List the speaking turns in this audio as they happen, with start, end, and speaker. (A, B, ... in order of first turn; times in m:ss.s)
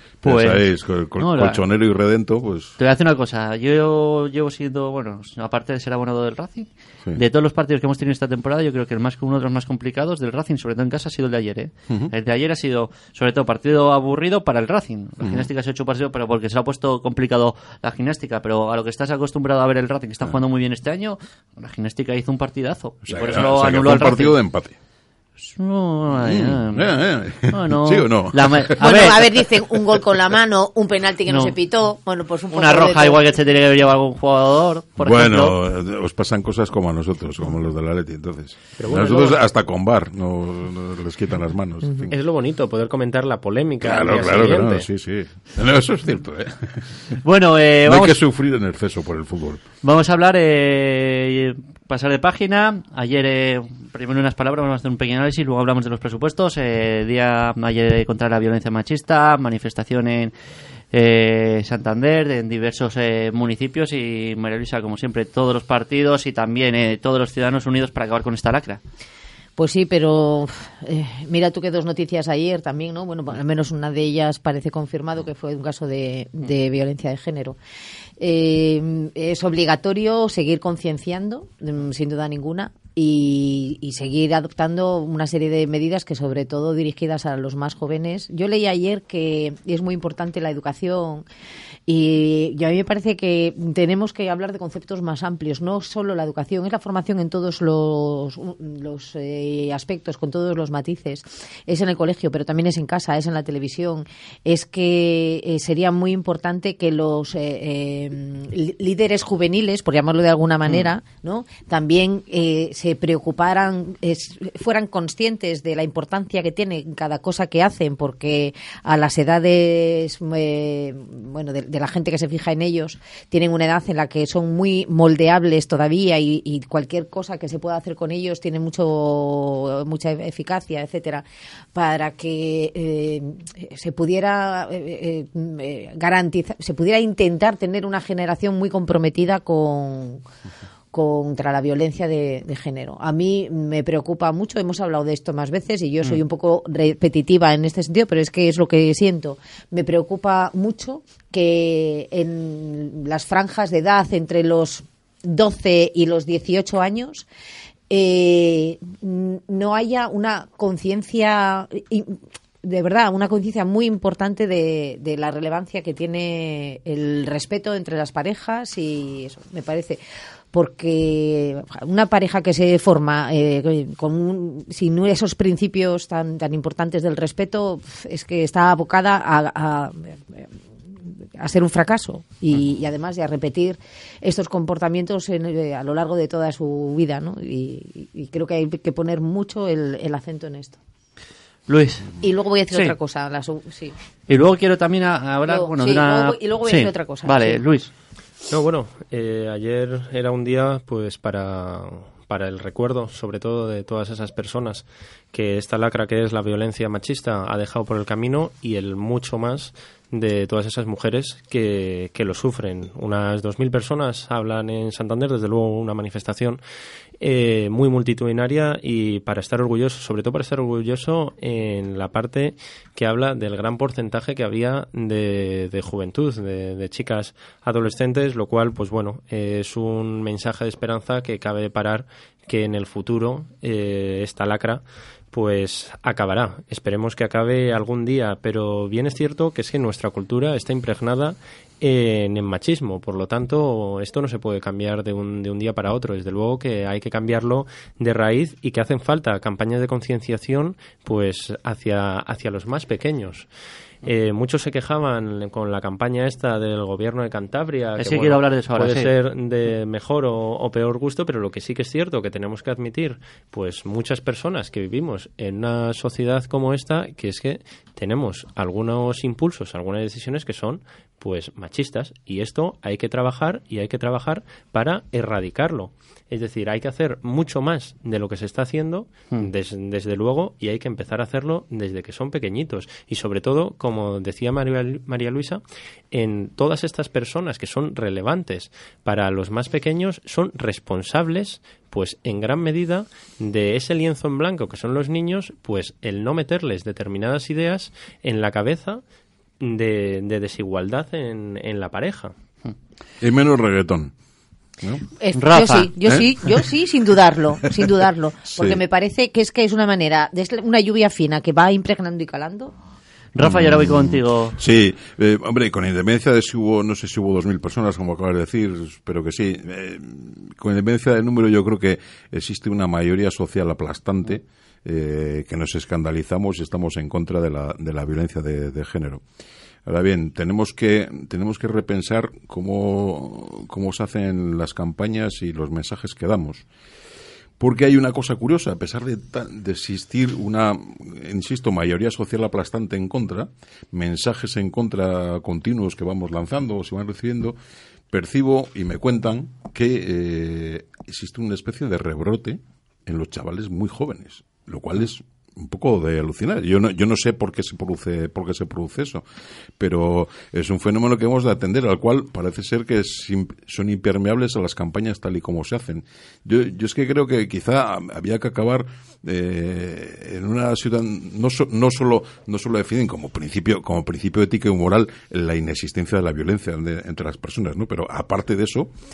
0:00.2-0:02.8 A
0:00.2-0:01.6 B
0:02.8-0:24.4 B
0:23.0-0:24.8 A
0:25.4-0:29.2 B
0:26.2-0:29.1 A
0:28.8-0:33.3 C
0:31.3-0:31.5 B
0:32.5-0:35.6 B
0:35.0-0:42.1 A
0:38.8-0:39.4 D
0:42.1-0:44.9 D
0:43.8-0:47.1 A
0:47.2-0:48.2 B
0:47.8-0:49.6 A
0:49.8-1:00.3 B
1:00.9-1:08.8 B
1:09.6-1:17.6 C
1:18.2-1:31.2 C
1:31.9-2:11.2 C
2:11.7-2:20.2 C
2:20.9-2:37.3 C
2:37.9-2:50.0 C
2:50.5-3:00.5 C
3:01.0-3:10.8 C
3:11.7-3:12.2 B
3:12.2-3:13.9 C
3:14.3-3:17.9 B
3:15.5-3:17.6 C
3:18.5-3:36.6 D
3:37.2-4:13.5 D
4:14.0-4:59.0 D
4:18.0-4:19.1 B
4:59.6-5:02.3 D
5:03.2-5:04.1 A
5:05.2-5:12.7 C
5:05.3-5:05.9 B
5:08.5-5:08.8 A
5:13.3-5:14.6 B
5:13.4-5:29.2 A
5:29.8-5:36.6 A
5:37.6-5:47.6 A
5:48.1-5:59.2 A
5:59.8-6:18.9 A